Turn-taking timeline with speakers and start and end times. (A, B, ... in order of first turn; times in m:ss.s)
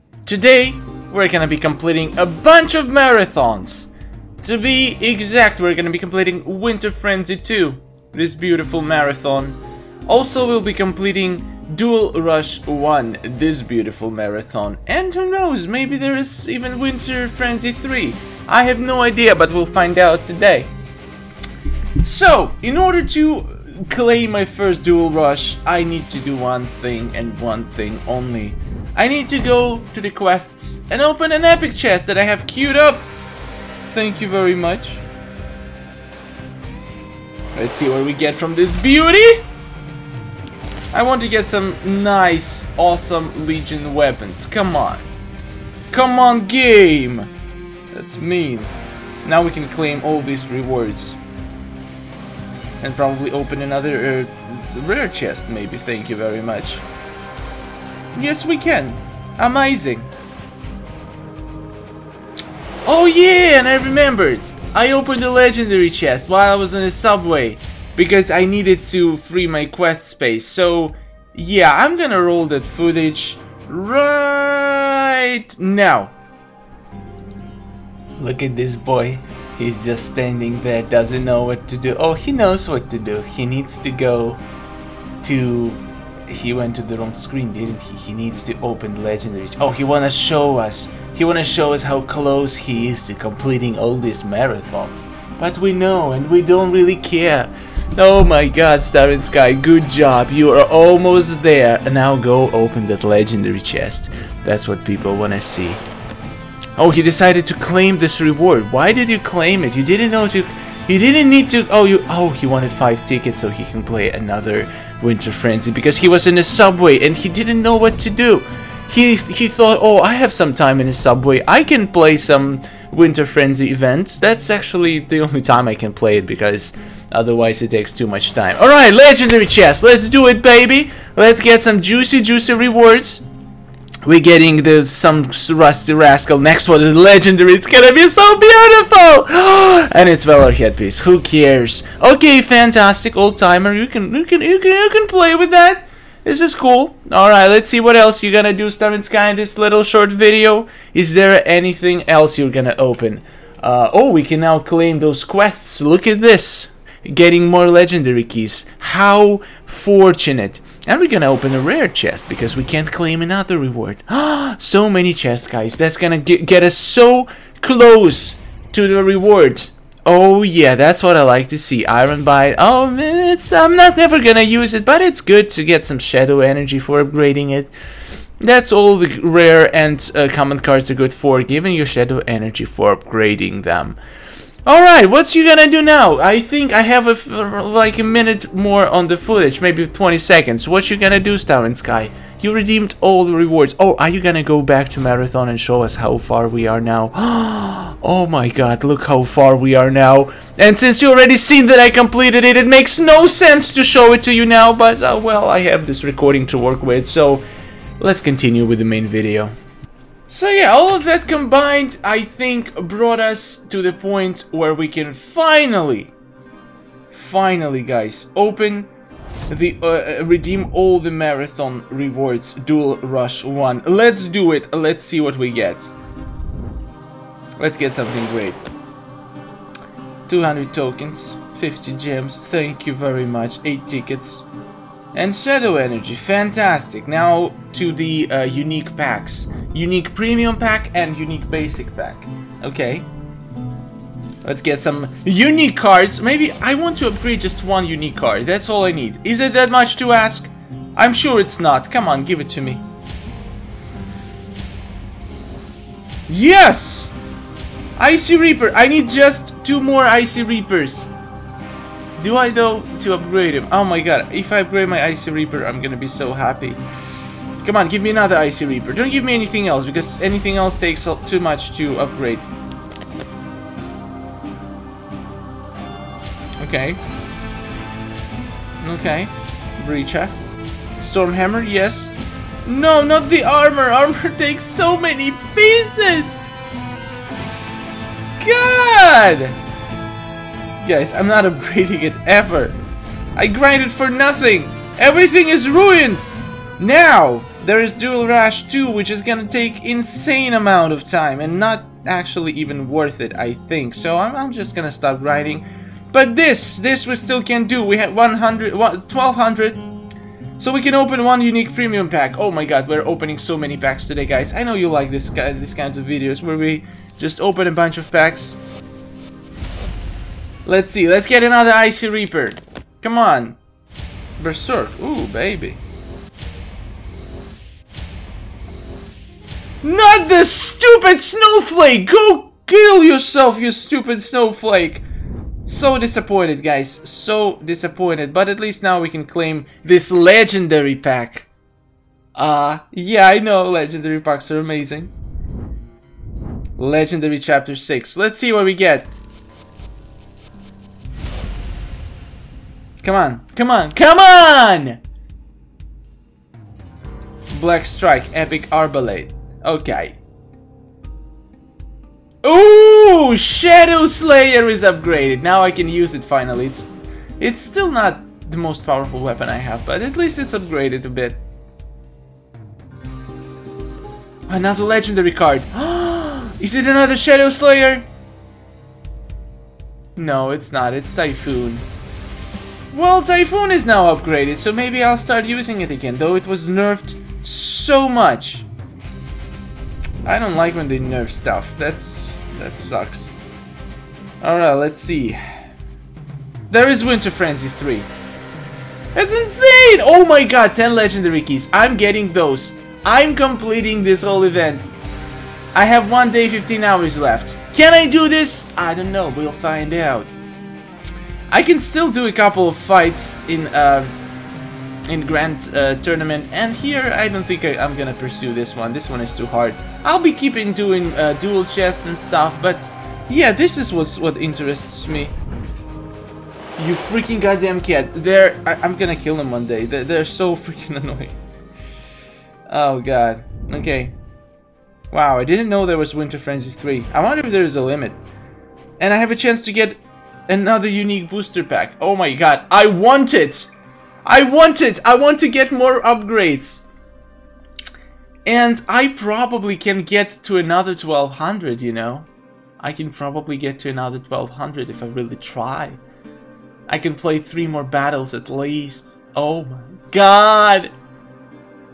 0:00.2-0:03.9 A
0:04.4-0:20.7 A
0:22.0-0:33.1 A
0:33.9-0:35.0 A
0:37.5-0:39.4 A
0:40.9-0:45.1 A
0:45.9-0:47.3 A
0:47.9-0:48.7 A
0:49.2-0:51.2 A
0:52.8-0:56.8 A
0:58.1-1:00.1 A
1:02.8-1:16.1 A
1:18.2-1:24.4 A
1:25.2-1:45.8 A
1:46.8-2:13.2 A
2:14.0-2:57.7 A
2:58.4-3:04.0 A
3:04.6-3:27.4 A
3:28.0-3:29.5 A
3:30.3-3:36.1 A
3:37.1-3:38.9 A
3:39.5-3:45.9 A
3:47.6-3:48.6 A
3:50.3-3:54.4 A
3:55.1-4:03.1 A
4:04.4-4:12.8 A
4:16.3-4:17.1 A
4:18.0-4:21.1 A
4:22.2-4:26.8 A
4:27.6-4:32.4 A
4:36.6-4:37.0 A
4:38.8-4:40.3 A
4:41.0-4:42.1 A
4:42.6-4:46.5 A
4:48.4-4:49.6 A
4:50.8-4:52.8 A
4:53.4-5:09.8 A
5:10.6-5:18.6 A
5:20.6-5:23.6 A
5:24.4-5:25.8 A
5:29.8-5:35.0 A
5:35.6-5:41.5 A
5:42.4-5:45.1 A
5:46.8-5:49.1 A
5:53.0-5:55.0 A
5:57.5-6:00.2 A
6:02.4-6:06.9 A
6:07.4-6:11.4 A
6:14.5-6:18.1 A
6:20.2-6:21.8 A
6:22.9-6:28.7 A
6:30.2-6:33.3 A
6:34.4-6:35.4 A
6:36.7-6:38.1 A
6:39.1-6:44.9 A
6:45.7-6:50.3 A
6:51.5-6:54.2 A
6:55.1-7:05.3 A
7:06.8-7:11.4 A
7:12.7-7:14.1 A
7:15.1-7:18.2 A
7:19.0-7:23.7 A
7:24.2-7:26.8 A
7:28.4-7:32.3 A
7:32.8-7:36.0 A
7:36.9-7:40.9 A